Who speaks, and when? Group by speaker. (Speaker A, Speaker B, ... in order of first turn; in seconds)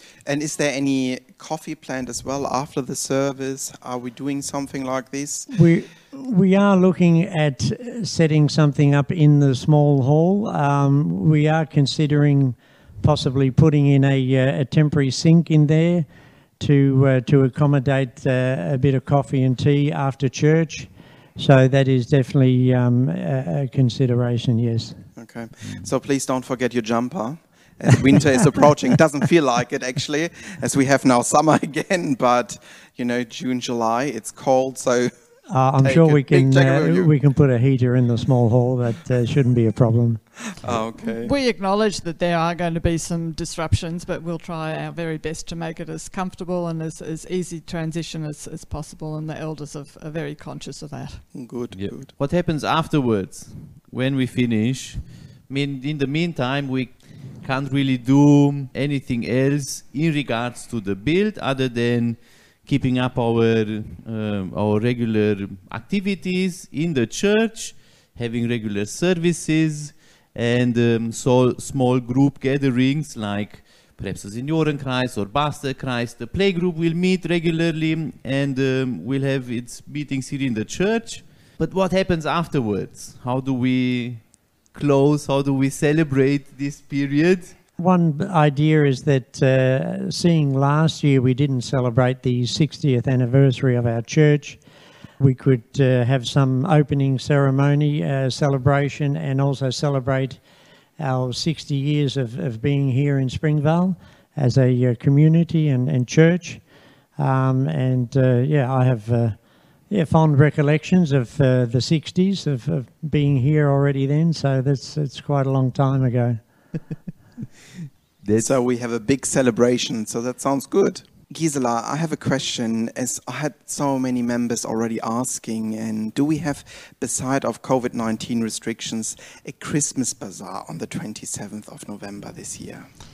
Speaker A: 0.3-5.5, 25.2-35.1, 35.8-37.1, 40.6-41.3, 51.3-52.1, 118.4-132.9
Speaker B: 5.5-16.1, 16.6-25.0, 35.5-40.8, 87.8-94.6, 95.2-100.4, 101.0-106.6, 107.2-116.4
Speaker C: 25.6-25.9, 51.7-84.2, 84.7-87.5, 118.2-118.5
Speaker D: 41.0-51.3